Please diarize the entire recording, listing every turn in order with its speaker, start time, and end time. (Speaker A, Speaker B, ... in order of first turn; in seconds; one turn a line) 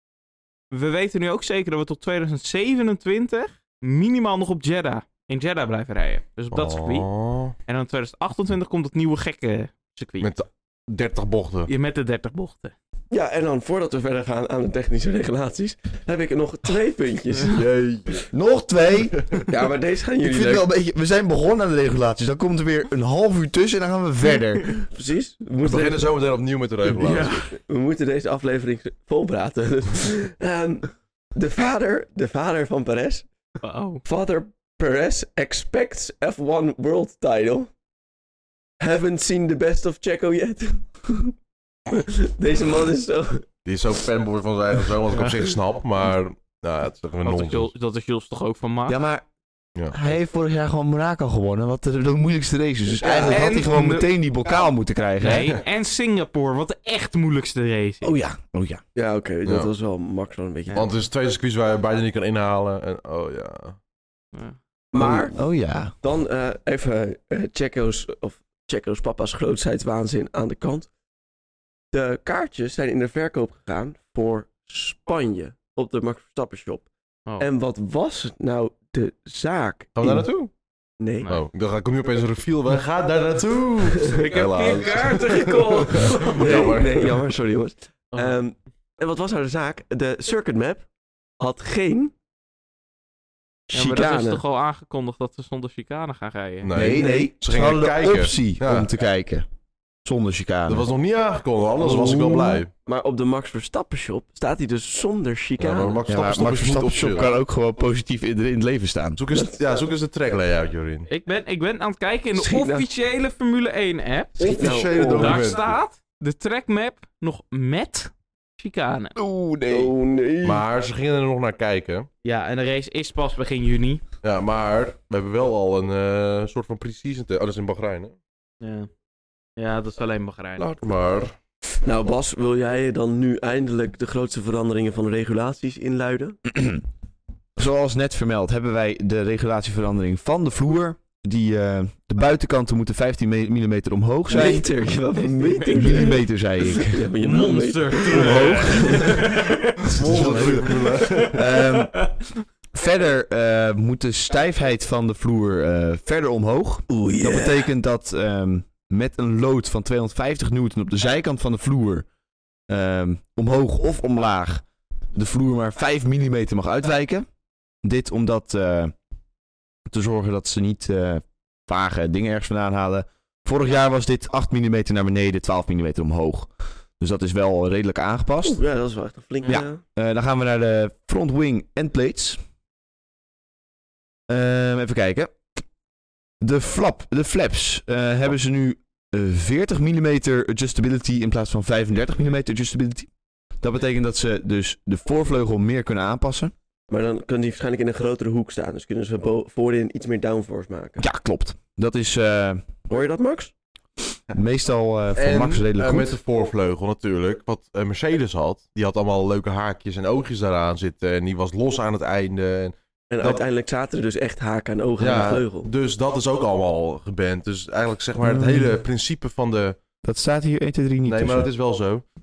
Speaker A: 0.7-7.1
Speaker B: 6.5-7.5
Speaker A: 7.7-10.3
Speaker B: 10.2-11.7
Speaker A: 11.7-12.7
Speaker C: 13.1-17.6
Speaker B: 17.5-18.3
Speaker D: 18.3-19.2
Speaker B: 19.2-19.4
Speaker C: 19.5-20.7
Speaker D: 20.2-24.8
Speaker C: 24.9-26.1
Speaker B: 25.6-27.4
Speaker C: 26.9-33.3
Speaker A: 27.0-27.5
Speaker A: 33.6-34.0
Speaker C: 34.0-37.7
Speaker C: 38.8-41.3
Speaker C: 41.9-43.5
Speaker B: 43.6-47.7
Speaker A: 47.2-49.0
Speaker D: 48.9-49.3
Speaker B: 49.8-50.0
Speaker D: 49.9-55.6
Speaker C: 52.9-53.6
Speaker A: 53.2-54.1
Speaker A: 55.2-58.1
Speaker D: 58.0-58.8
Speaker C: 59.0-60.9
Speaker B: 60.8-63.8
Speaker C: 64.9-65.4
Speaker D: 65.0-66.0
Speaker C: 66.0-70.9
Speaker C: 71.9-76.9
Speaker C: 77.4-80.3
Speaker B: 80.0-80.5
Speaker C: 81.0-81.3
Speaker B: 81.3-87.2
Speaker A: 84.0-86.8
Speaker C: 86.0-90.9
Speaker C: 91.4-92.1
Speaker C: 93.7-94.4
Speaker A: 93.7-96.7
Speaker B: 96.6-98.9
Speaker D: 96.7-99.5
Speaker C: 96.8-97.3
Speaker D: 100.0-100.9
Speaker B: 100.7-102.7
Speaker D: 101.8-102.6
Speaker C: 101.9-102.2
Speaker C: 102.8-106.0
Speaker B: 105.6-107.3
Speaker D: 106.1-109.2
Speaker B: 109.2-111.1
Speaker A: 111.1-119.2
Speaker C: 112.3-112.9
Speaker C: 114.4-115.5
Speaker B: 114.4-115.8
Speaker D: 119.2-119.9
Speaker C: 119.7-120.7
Speaker B: 120.4-122.1
Speaker A: 122.2-124.0
Speaker B: 124.2-128.2
Speaker A: 128.6-128.9
Speaker A: 129.6-130.7
Speaker B: 130.6-131.3
Speaker C: 131.8-136.4
Speaker D: 136.5-136.8
Speaker D: 137.6-144.7
Speaker C: 144.3-149.3
Speaker A: 145.3-146.2
Speaker D: 145.7-147.1
Speaker A: 147.2-152.3
Speaker B: 148.2-148.8
Speaker D: 148.2-149.0
Speaker B: 149.8-151.4
Speaker D: 149.9-152.1
Speaker C: 150.1-150.4
Speaker D: 152.7-162.1
Speaker C: 156.9-157.7
Speaker D: 162.7-167.3
Speaker D: 167.8-168.9
Speaker D: 169.9-178.6
Speaker C: 178.4-179.8
Speaker D: 179.5-182.4
Speaker D: 184.3-185.5
Speaker D: 186.4-193.1
Speaker D: 193.6-196.5
Speaker C: 196.9-201.0
Speaker D: 201.0-202.6
Speaker C: 202.9-203.5
Speaker D: 204.3-206.2
Speaker B: 205.2-213.4
Speaker C: 213.1-215.7
Speaker B: 215.0-219.8
Speaker D: 218.2-218.8
Speaker D: 220.0-221.5
Speaker B: 221.1-222.1